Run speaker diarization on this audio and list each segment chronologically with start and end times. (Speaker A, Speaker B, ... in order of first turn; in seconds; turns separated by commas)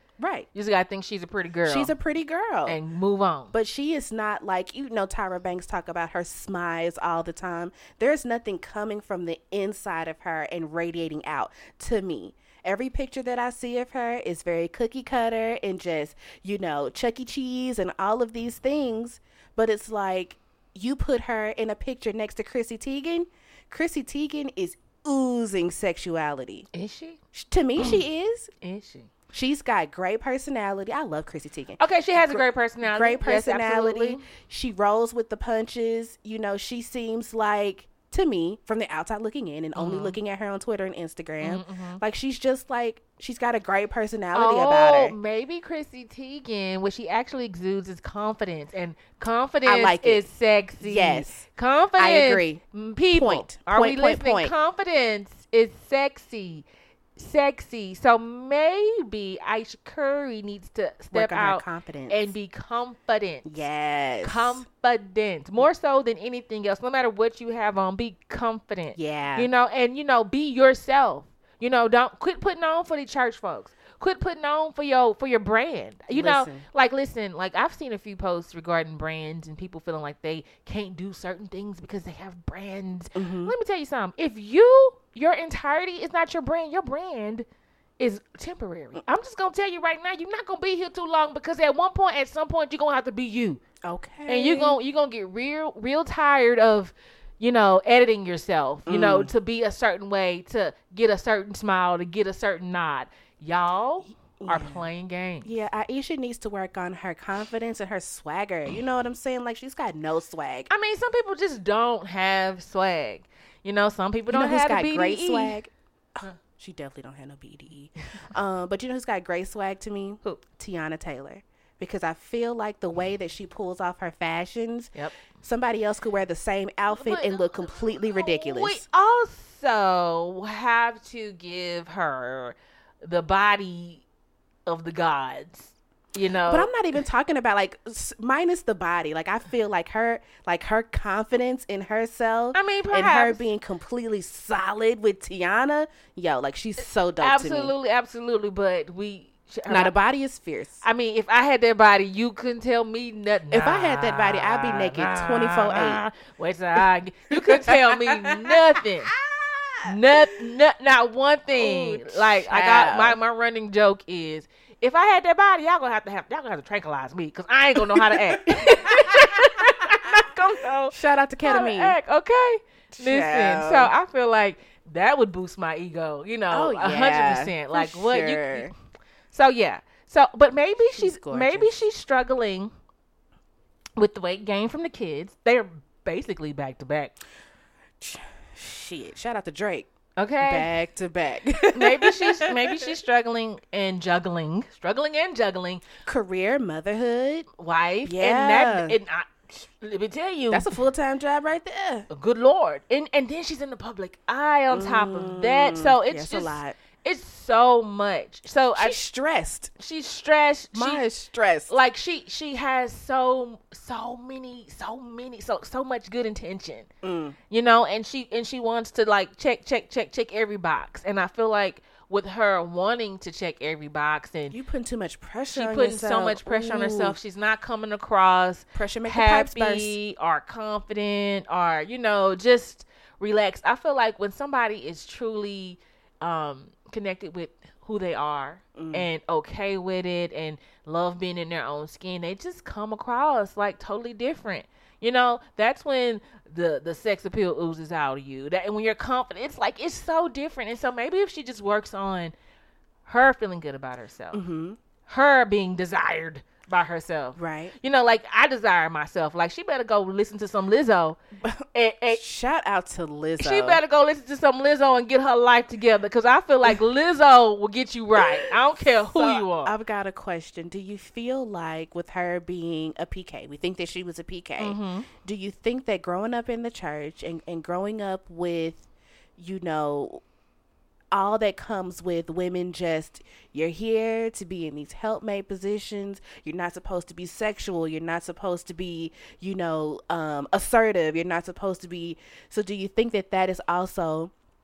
Speaker A: 0.2-0.5, Speaker B: 0.5-1.9, Speaker A: 1.6-2.8, Speaker B: 2.7-3.5, Speaker A: 3.5-26.7, Speaker B: 26.7-27.2, Speaker A: 27.3-28.5, Speaker B: 28.6-29.1, Speaker A: 29.3-45.2, Speaker B: 31.8-34.2, Speaker B: 39.8-40.2, Speaker B: 41.4-42.0, Speaker B: 44.3-56.6, Speaker A: 49.6-50.2, Speaker A: 50.8-51.5, Speaker A: 52.0-52.6, Speaker A: 53.1-54.5, Speaker B: 57.2-63.6, Speaker A: 61.1-62.3, Speaker A: 63.5-64.6, Speaker B: 64.2-87.5, Speaker A: 69.0-69.5, Speaker A: 76.1-76.7, Speaker A: 83.2-83.5, Speaker B: 88.0-93.6, Speaker A: 93.8-94.8, Speaker B: 94.3-105.5, Speaker A: 98.9-99.3, Speaker A: 104.4-104.8, Speaker A: 105.4-110.7, Speaker B: 110.7-115.6, Speaker A: 114.3-128.8, Speaker B: 126.9-134.0, Speaker B: 134.7-136.7, Speaker A: 136.5-147.7, Speaker B: 142.5-143.5, Speaker B: 147.2-149.9, Speaker A: 149.7-150.8, Speaker B: 150.8-159.1, Speaker A: 153.5-156.0, Speaker A: 157.3-158.6, Speaker A: 159.2-159.9, Speaker B: 159.8-178.7, Speaker A: 161.5-163.2, Speaker A: 167.8-170.2, Speaker A: 170.9-172.0, Speaker A: 172.9-173.9, Speaker A: 176.5-178.7, Speaker B: 179.3-182.7, Speaker A: 180.9-181.7, Speaker B: 184.0-187.2, Speaker A: 188.0-189.9, Speaker B: 190.2-190.7, Speaker A: 190.4-192.8, Speaker B: 191.7-195.8, Speaker A: 196.1-197.5, Speaker B: 197.6-200.7, Speaker A: 198.1-199.0, Speaker A: 200.5-202.1, Speaker B: 202.1-209.0, Speaker A: 204.7-206.8, Speaker A: 208.8-209.7, Speaker B: 209.8-211.0, Speaker A: 210.7-211.7, Speaker B: 211.7-216.9, Speaker A: 217.0-217.4, Speaker B: 217.5-224.6, Speaker A: 224.5-227.2, Speaker B: 225.5-252.3, Speaker A: 228.8-230.0, Speaker A: 238.8-239.1, Speaker B: 253.1-254.4, Speaker A: 254.3-254.8, Speaker B: 255.1-261.2, Speaker A: 257.4-257.8, Speaker A: 261.4-263.8, Speaker B: 261.7-262.2, Speaker B: 263.4-269.7, Speaker A: 268.2-280.2, Speaker B: 274.6-275.1, Speaker A: 281.1-294.3